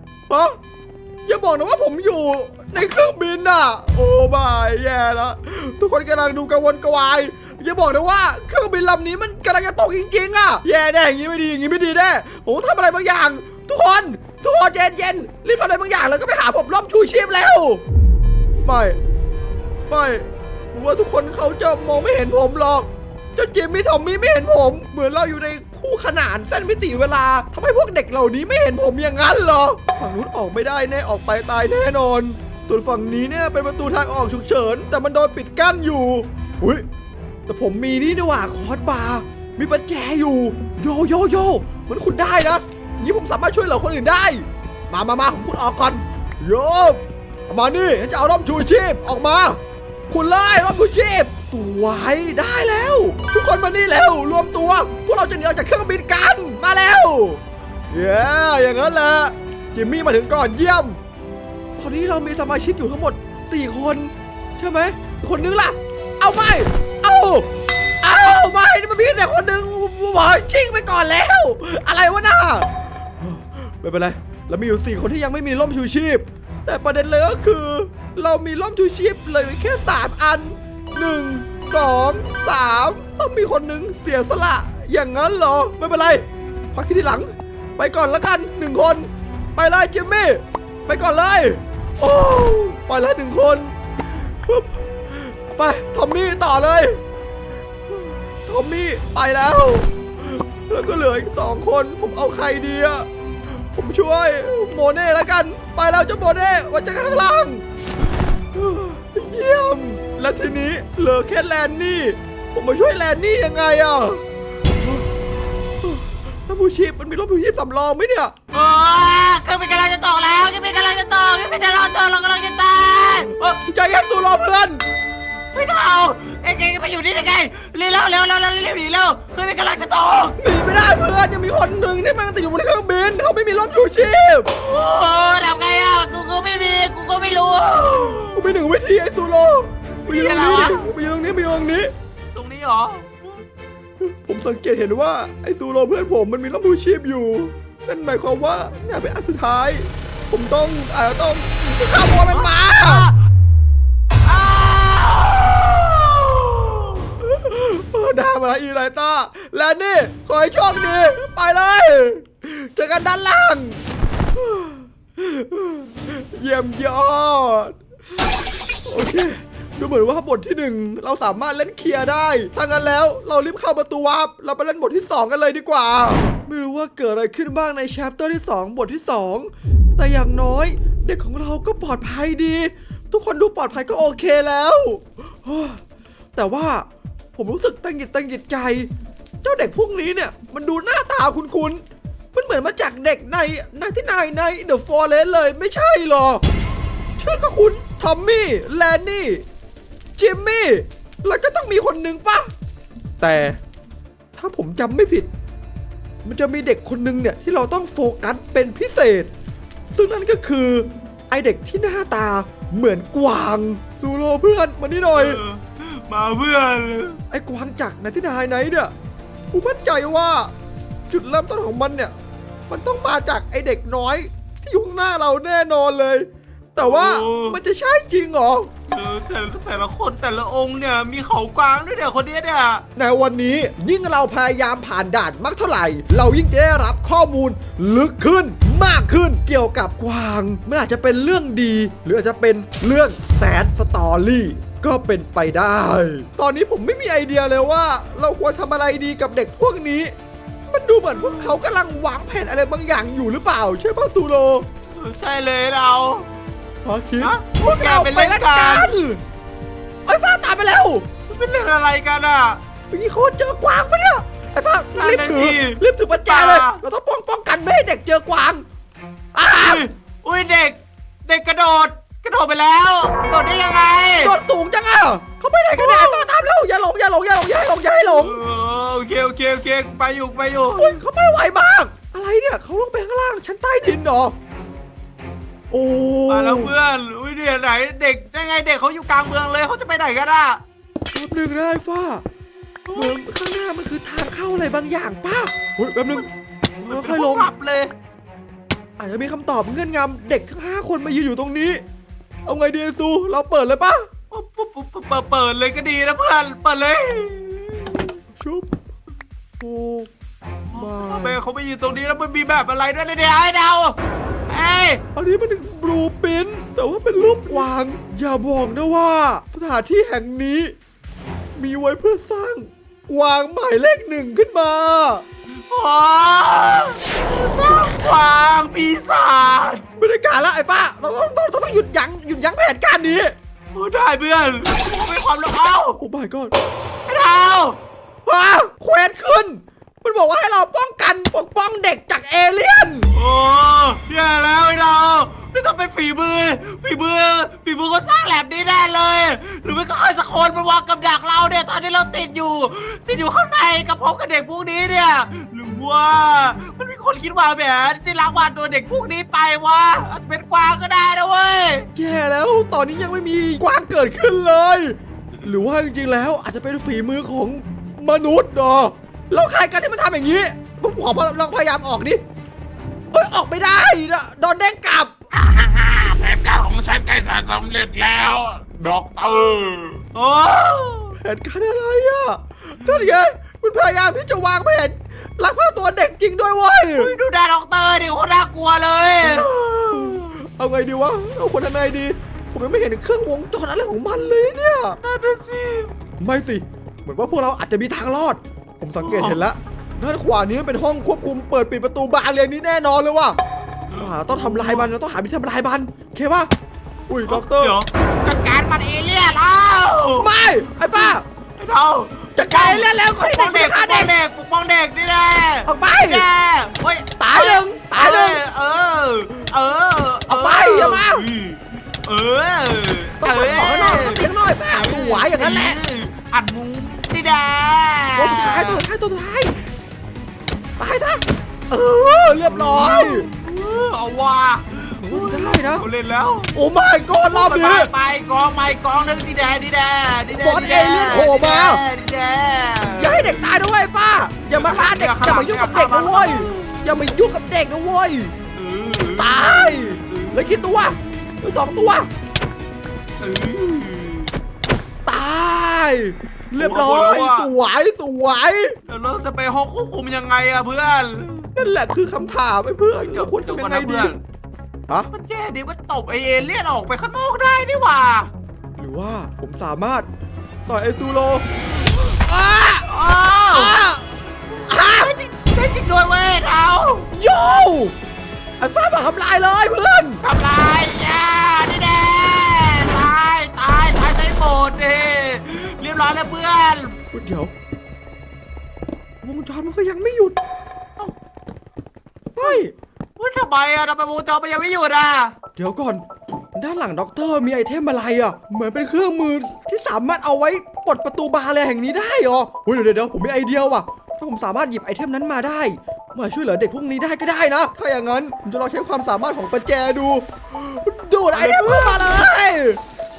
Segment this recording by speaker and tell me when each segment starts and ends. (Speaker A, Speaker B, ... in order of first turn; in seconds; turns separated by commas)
Speaker A: 0.3-0.6, Speaker A: 1.3-17.8, Speaker A: 18.6-19.0, Speaker A: 19.9-36.9, Speaker A: 37.5-61.0, Speaker A: 61.8-67.5, Speaker A: 68.0-97.0, Speaker A: 97.9-103.1, Speaker A: 103.7-107.6, Speaker A: 108.5-114.2, Speaker A: 115.8-118.3, Speaker B: 118.5-123.6, Speaker A: 123.7-124.8, Speaker B: 125.5-130.3, Speaker A: 130.4-134.5, Speaker B: 134.6-138.5, Speaker A: 138.3-141.9, Speaker B: 140.1-140.9, Speaker B: 142.3-143.3, Speaker A: 144.0-153.1, Speaker B: 152.0-153.2, Speaker B: 154.2-157.1, Speaker A: 157.2-163.8, Speaker A: 164.3-167.8, Speaker A: 168.9-185.8, Speaker A: 186.3-188.9, Speaker A: 189.4-191.8, Speaker A: 192.3-196.4, Speaker A: 197.2-199.4, Speaker A: 200.2-202.5, Speaker A: 203.2-203.6, Speaker A: 204.4-205.3, Speaker A: 206.2-209.3, Speaker A: 209.9-215.4, Speaker B: 215.2-217.2, Speaker A: 217.3-218.9, Speaker A: 219.5-220.5, Speaker A: 221.1-222.1, Speaker A: 222.7-228.7, Speaker B: 226.8-227.6, Speaker B: 228.9-232.8, Speaker A: 233.0-250.1, Speaker A: 250.7-254.7, Speaker B: 251.1-251.6, Speaker B: 254.9-256.3, Speaker A: 256.8-259.2, Speaker B: 257.2-258.9, Speaker A: 260.1-261.1, Speaker B: 261.3-262.6, Speaker A: 262.9-268.6, Speaker B: 265.0-266.8, Speaker A: 269.3-269.9, Speaker B: 269.5-274.4, Speaker A: 274.2-278.4, Speaker B: 275.8-276.3, Speaker B: 278.1-281.0, Speaker A: 280.8-284.4, Speaker A: 285.7-286.7, Speaker B: 286.3-290.6, Speaker A: 291.1-292.2, Speaker B: 292.9-293.1, Speaker A: 292.9-296.3, Speaker A: 296.8-297.5, Speaker B: 296.9-297.9, Speaker A: 299.0-301.8, Speaker A: 302.5-304.1, Speaker B: 304.3-308.2, Speaker A: 308.4-308.7, Speaker A: 309.6-310.1, Speaker B: 310.7-314.0, Speaker A: 310.8-311.4, Speaker B: 314.5-315.0, Speaker A: 315.1-320.7, Speaker A: 321.6-325.2, Speaker B: 325.7-329.8, Speaker A: 330.0-333.4, Speaker B: 333.7-336.0, Speaker A: 336.0-336.5, Speaker B: 337.1-337.8, Speaker A: 338.3-343.1, Speaker B: 343.1-361.9, Speaker A: 361.9-372.2, Speaker A: 373.1-375.1, Speaker C: 375.3-380.0, Speaker B: 380.1-381.1, Speaker A: 381.1-387.1, Speaker B: 386.9-390.3, Speaker A: 389.2-395.0, Speaker B: 395.0-395.9, Speaker A: 396.2-403.4, Speaker B: 399.0-399.4, Speaker B: 403.9-404.9, Speaker A: 404.0-406.5, Speaker A: 407.1-407.8, Speaker B: 407.3-428.8, Speaker A: 410.2-411.2, Speaker A: 412.4-414.1, Speaker A: 415.7-416.2, Speaker A: 417.2-418.4, Speaker A: 420.3-421.2, Speaker A: 423.2-425.8, Speaker A: 428.2-429.5, Speaker A: 430.8-433.3, Speaker B: 432.5-436.5, Speaker A: 435.0-435.9, Speaker A: 436.5-437.9, Speaker B: 437.3-443.5, Speaker A: 440.4-441.8, Speaker A: 443.0-448.3, Speaker B: 444.5-446.8, Speaker B: 448.6-451.0, Speaker A: 449.2-452.1, Speaker B: 453.2-454.3, Speaker A: 455.1-458.8, Speaker B: 456.6-457.5, Speaker B: 458.9-461.5, Speaker A: 461.6-464.1, Speaker B: 463.1-464.2, Speaker B: 465.1-468.3, Speaker A: 468.8-470.1, Speaker A: 470.7-471.5, Speaker B: 471.9-473.8, Speaker A: 473.5-474.0, Speaker B: 474.6-477.1, Speaker A: 474.7-475.1, Speaker A: 477.1-477.9, Speaker A: 478.6-480.2, Speaker B: 480.2-487.0, Speaker A: 487.1-487.5, Speaker A: 489.2-490.4, Speaker A: 492.4-492.7, Speaker B: 493.2-495.4, Speaker A: 495.6-496.0, Speaker A: 496.6-512.8, Speaker B: 511.3-512.2